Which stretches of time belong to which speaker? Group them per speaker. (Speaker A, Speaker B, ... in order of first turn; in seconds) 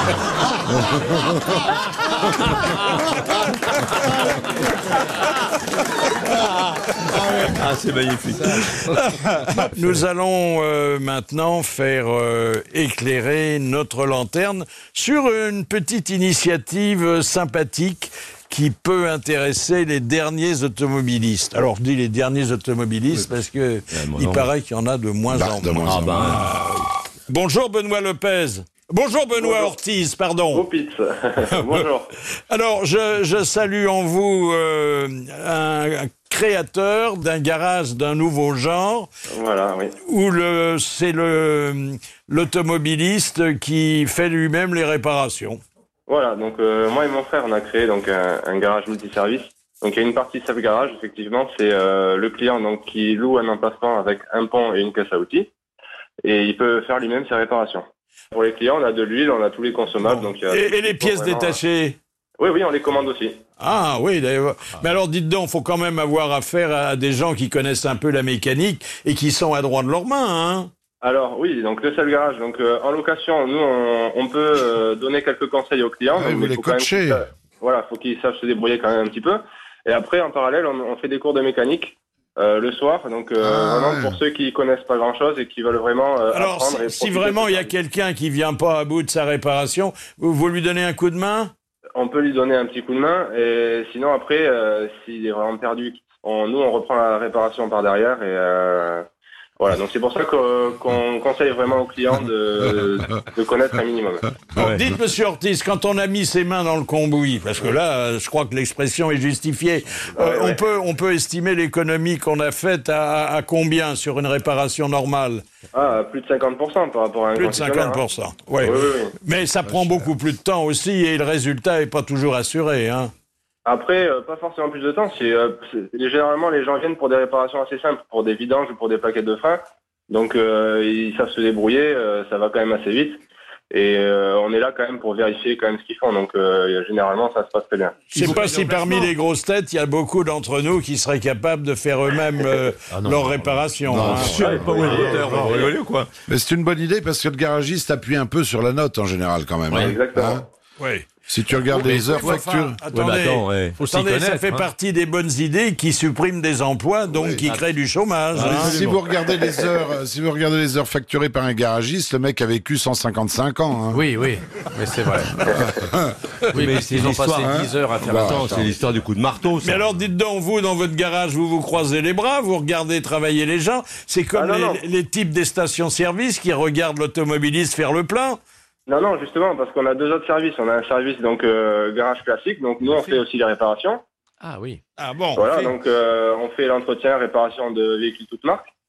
Speaker A: 0.7-1.4, 25.3-26.5, 76.1-77.2, 83.4-84.2, 119.7-120.1, 143.9-145.0, 146.3-150.5, 151.3-152.8, 157.1-157.4, 158.3-164.0, 165.5-166.2, 167.4-168.7
Speaker B: 7.5-8.9, 23.9-24.5, 25.9-26.5, 144.0-146.1, 152.9-153.8, 158.3-159.0, 166.5-169.8
Speaker C: 8.9-30.6, 32.5-39.1, 40.1-45.6, 60.0-62.0, 63.6-70.7, 86.3-91.5, 104.6-115.4, 117.3-123.1, 138.1-144.7, 150.8-151.1, 151.7-158.9, 169.6-178.4, 185.0-185.7
Speaker D: 29.4-29.7, 30.5-32.1, 39.4-39.9, 46.1-55.5, 56.2-61.6, 62.4-63.4, 71.0-87.7, 92.0-99.0, 99.6-104.2, 110.2-110.6, 115.7-118.0, 118.6-119.1, 123.7-133.2, 133.7-138.2, 149.8-150.4, 174.3-174.8, 178.9-184.0, 185.3-188.7
Speaker E: 138.3-139.1, 142.9-145.6, 153.8-154.7, 163.9-165.3, 166.5-168.8, 184.4-184.8